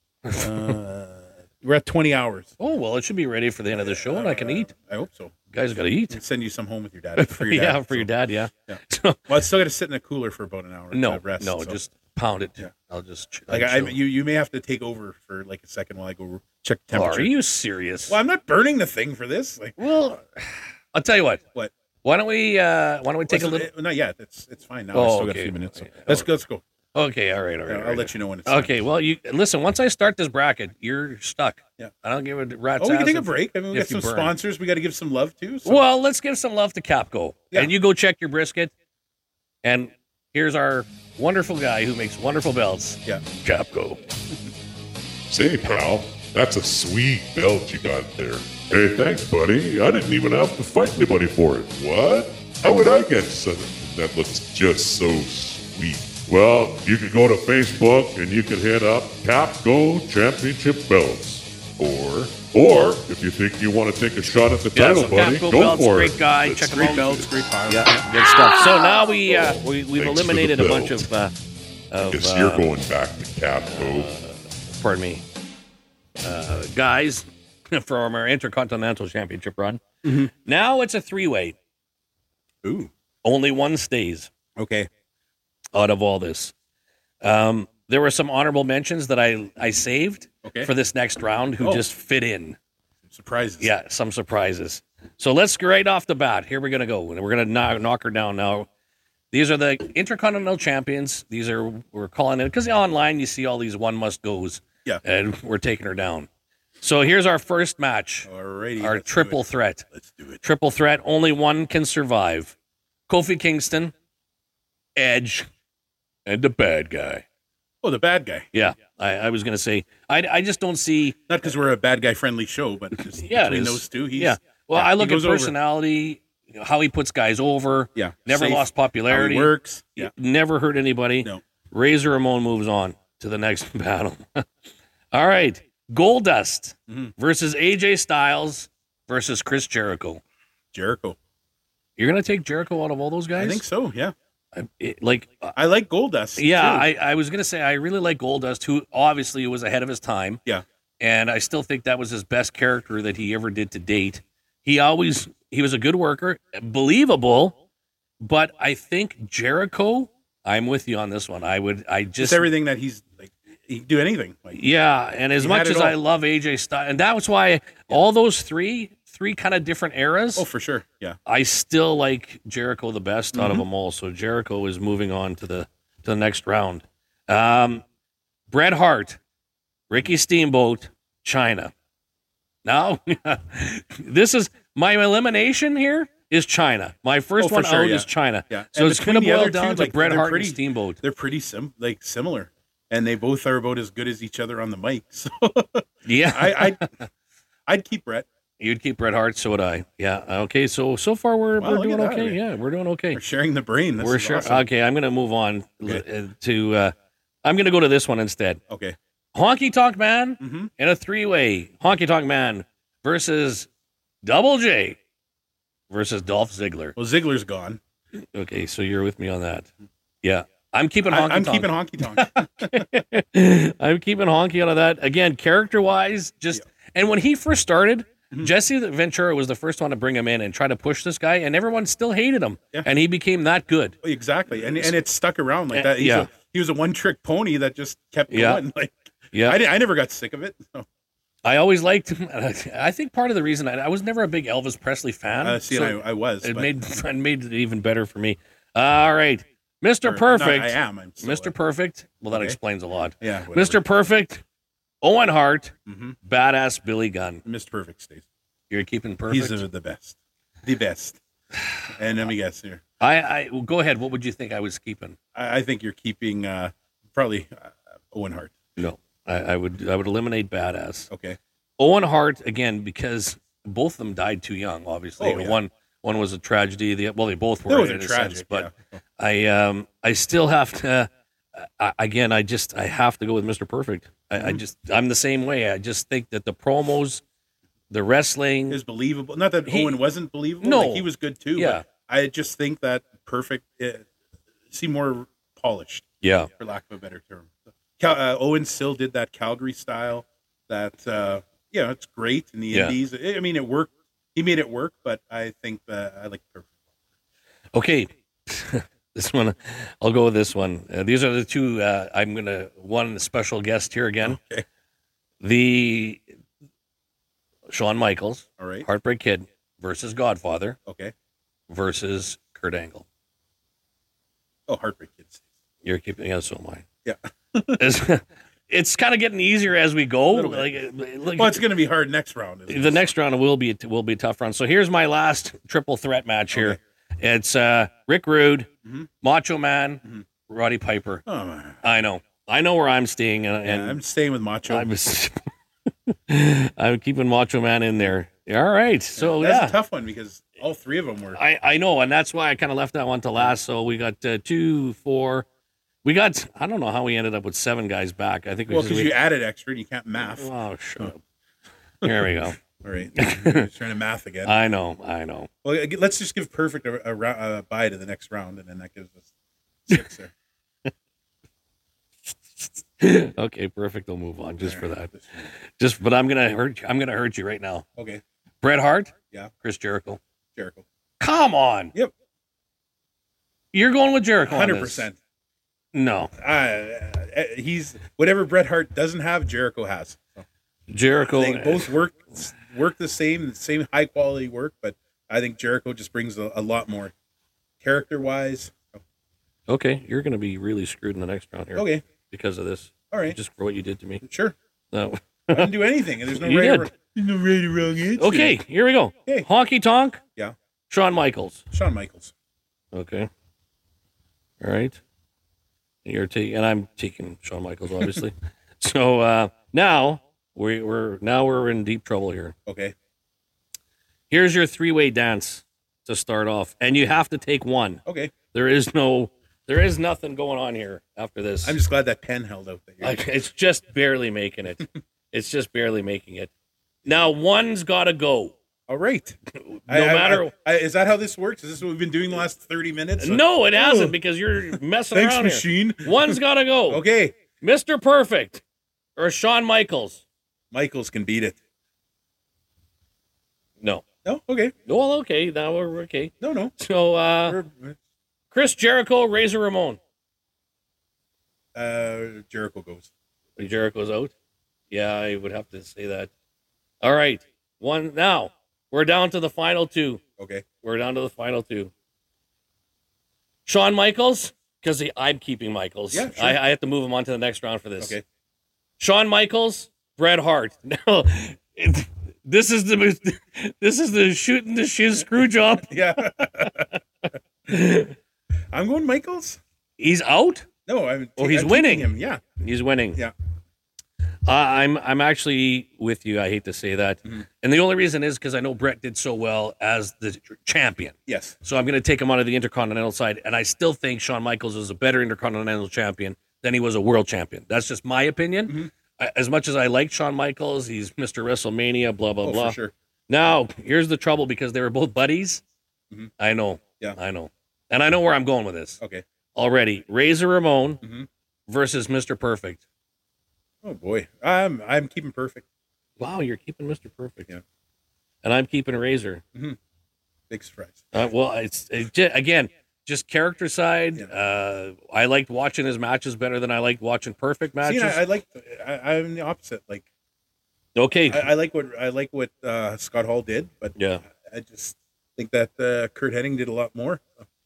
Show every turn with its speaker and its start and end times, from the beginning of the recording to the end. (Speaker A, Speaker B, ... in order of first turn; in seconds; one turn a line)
Speaker A: 0.2-0.7
Speaker B: 0.3-2.5
Speaker A: 2.6-4.7
Speaker B: 3.7-5.3
Speaker A: 5.5-6.2
Speaker B: 6.1-8.1
Speaker A: 7.2-9.3
Speaker B: 8.7-11.8
Speaker A: 10.9-14.0
Speaker B: 13.5-17.3
Speaker A: 16.9-18.2
Speaker B: 18.1-19.8
Speaker A: 19.8-21.4
Speaker A: 22.0-23.7
Speaker B: 23.3-26.6
Speaker A: 24.9-26.3
Speaker A: 26.9-34.3
Speaker B: 27.7-28.7
Speaker B: 32.8-35.8
Speaker A: 35.6-38.7
Speaker A: 39.6-44.0
Speaker C: 45.3-67.2
Speaker A: 64.7-71.3
Speaker B: 66.6-68.0
Speaker C: 70.0-71.0
Speaker A: 71.9-72.7
Speaker C: 72.1-74.1
Speaker A: 73.7-75.2
Speaker A: 76.2-81.5
Speaker B: 80.0-80.3
Speaker B: 82.6-82.9
Speaker A: 83.2-84.3
Speaker B: 84.5-84.9
Speaker A: 85.7-86.5
Speaker A: 87.2-92.6
Speaker B: 90.4-90.7
Speaker B: 91.6-91.8
Speaker B: 93.1-93.7
Speaker A: 93.6-98.7
Speaker A: 99.3-106.3
Speaker A: 106.8-108.3
Speaker B: 108.2-110.4
Speaker A: 108.8-109.8
Speaker A: 110.4-112.5
Speaker A: 113.1-113.9
Speaker A: 115.0-115.5
Speaker A: 116.2-117.2
Speaker B: 117.8-118.5
Speaker A: 118.5-121.2
Speaker B: 121.3-125.5
Speaker A: 123.0-134.5
Speaker B: 127.9-130.1
Speaker A: 135.1-140.2
Speaker B: 140.7-141.2
Speaker A: 142.0-143.6
Speaker B: 143.4-144.1
Speaker A: 144.5-145.5
Speaker B: 145.6-146.9
Speaker A: 146.4-150.4
Speaker A: 151.0-157.6
Speaker A: 158.2-162.5
Speaker B: 162.2-164.6
Speaker A: 164.5-170.4
Speaker B: 165.4-166.0
Speaker B: 170.3-171.2
Speaker A: 171.2-177.8
Speaker B: 173.3-173.6
Speaker A: 178.5-179.2
Speaker A: 179.9-181.7
Speaker A: 182.6-191.0
Speaker B: 187.4-196.9
Speaker A: 196.0-197.0
Speaker B: 197.7-198.3
Speaker A: 198.6-203.2
Speaker B: 201.6-202.4
Speaker B: 203.1-204.7
Speaker A: 204.0-208.6
Speaker B: 208.7-208.9
Speaker A: 209.3-213.7
Speaker B: 210.4-210.7
Speaker A: 214.2-215.0
Speaker A: 215.9-216.9
Speaker B: 216.9-217.8
Speaker A: 218.3-219.7
Speaker A: 220.2-234.0
Speaker B: 221.1-222.9
Speaker B: 234.0-240.8
Speaker A: 234.6-234.9
Speaker A: 235.7-236.3
Speaker A: 238.3-238.6
Speaker A: 239.3-239.6
Speaker A: 241.4-254.4
Speaker B: 245.4-246.7
Speaker B: 250.0-251.5
Speaker B: 252.3-252.6
Speaker B: 253.2-253.8
Speaker A: 255.0-257.4
Speaker B: 255.8-256.1
Speaker B: 257.4-258.2
Speaker A: 258.7-259.6
Speaker B: 259.3-261.2
Speaker B: 261.9-262.8
Speaker A: 263.0-265.2
Speaker B: 265.3-268.6
Speaker A: 268.8-271.1
Speaker B: 271.1-271.4
Speaker A: 271.8-287.2
Speaker B: 275.2-275.6
Speaker B: 277.7-279.0
Speaker B: 284.4-284.6
Speaker A: 287.9-288.8
Speaker B: 288.7-294.1
Speaker A: 289.7-290.0
Speaker A: 290.6-291.8
Speaker B: 294.7-306.7
Speaker A: 296.2-296.5
Speaker A: 302.7-302.9
Speaker A: 307.7-314.4
Speaker B: 314.2-314.6
Speaker A: 315.4-316.2
Speaker A: 317.7-320.8
Speaker B: 318.6-318.9
Speaker B: 320.9-321.1
Speaker A: 321.7-323.0
Speaker B: 324.7-325.4
Speaker A: 325.8-326.9
Speaker B: 327.0-327.8
Speaker A: 327.8-331.6
Speaker B: 330.3-330.7
Speaker B: 331.3-333.1
Speaker A: 332.7-338.7
Speaker B: 336.5-336.8
Speaker A: 339.2-341.2
Speaker B: 341.2-341.8
Speaker A: 341.8-344.0
Speaker B: 343.6-344.9
Speaker A: 344.7-345.5
Speaker A: 346.1-349.8
Speaker B: 349.2-351.4
Speaker A: 351.4-355.5
Speaker A: 356.0-359.1
Speaker B: 358.7-361.1
Speaker A: 360.3-361.2
Speaker A: 362.0-362.6
Speaker B: 362.8-364.6
Speaker A: 363.1-363.7
Speaker A: 364.4-365.5
Speaker B: 365.6-369.3
Speaker B: 369.9-370.3
Speaker A: 372.3-377.8
Speaker B: 374.6-375.5
Speaker B: 378.0-378.2
Speaker A: 378.6-380.2
Speaker B: 380.6-380.8
Speaker A: 381.2-381.9
Speaker A: 383.7-385.1
Speaker B: 384.4-385.2
Speaker A: 385.9-386.3
Speaker B: 386.4-390.4
Speaker A: 390.9-391.9
Speaker B: 391.3-397.1
Speaker B: 397.8-399.0
Speaker A: 399.7-404.2
Speaker B: 401.7-402.0
Speaker B: 403.1-403.4
Speaker B: 404.2-404.6
Speaker A: 404.9-405.7
Speaker B: 405.5-408.6
Speaker A: 406.3-406.9
Speaker A: 408.2-410.2
Speaker A: 410.9-411.6
Speaker B: 411.7-412.3
Speaker A: 412.9-413.3
Speaker A: 414.6-415.0
Speaker A: 416.0-422.5
Speaker B: 422.6-422.9
Speaker A: 424.3-431.8
Speaker B: 428.1-428.3
Speaker B: 431.6-433.2
Speaker A: 433.0-436.5
Speaker A: 437.0-438.5
Speaker B: 438.9-439.4
Speaker A: 439.5-440.5
Speaker B: 439.9-444.1
Speaker A: 443.2-447.0
Speaker B: 444.7-447.4
Speaker A: 447.6-448.6
Speaker A: 449.1-450.2
Speaker B: 450.7-451.6
Speaker B: 454.2-454.7
Speaker A: 454.9-457.6
Speaker B: 456.4-456.7
Speaker B: 457.4-458.0
Speaker A: 458.5-460.0
Speaker B: 461.7-463.1
Speaker A: 463.6-464.3
Speaker A: 464.9-466.3
Speaker A: 467.0-470.2
Speaker B: 470.4-470.6
Speaker A: 470.8-471.9
Speaker A: 473.6-478.2
Speaker B: 476.1-476.6
Speaker A: 479.0-487.0
Speaker B: 485.9-486.9
Speaker A: 487.7-488.1
Speaker B: 488.7-489.6
Speaker A: 490.0-490.6
Speaker B: 490.9-492.4
Speaker A: 491.4-493.2
Speaker A: 494.4-512.8
Speaker B: 501.3-501.5
Speaker B: 512.4-512.9
Speaker A: 513.3-515.6
Speaker A: 516.4-519.0
Speaker B: 519.0-519.2
Speaker A: 519.5-521.0
Speaker B: 521.0-521.3
Speaker A: 521.7-522.8
Speaker B: 523.8-525.6
Speaker A: 526.2-527.5
Speaker A: 528.4-529.4
Speaker B: 530.5-531.0
Speaker A: 531.1-538.2
Speaker B: 537.8-540.1
Speaker A: 540.9-541.5
Speaker B: 541.3-547.3
Speaker A: 543.9-544.2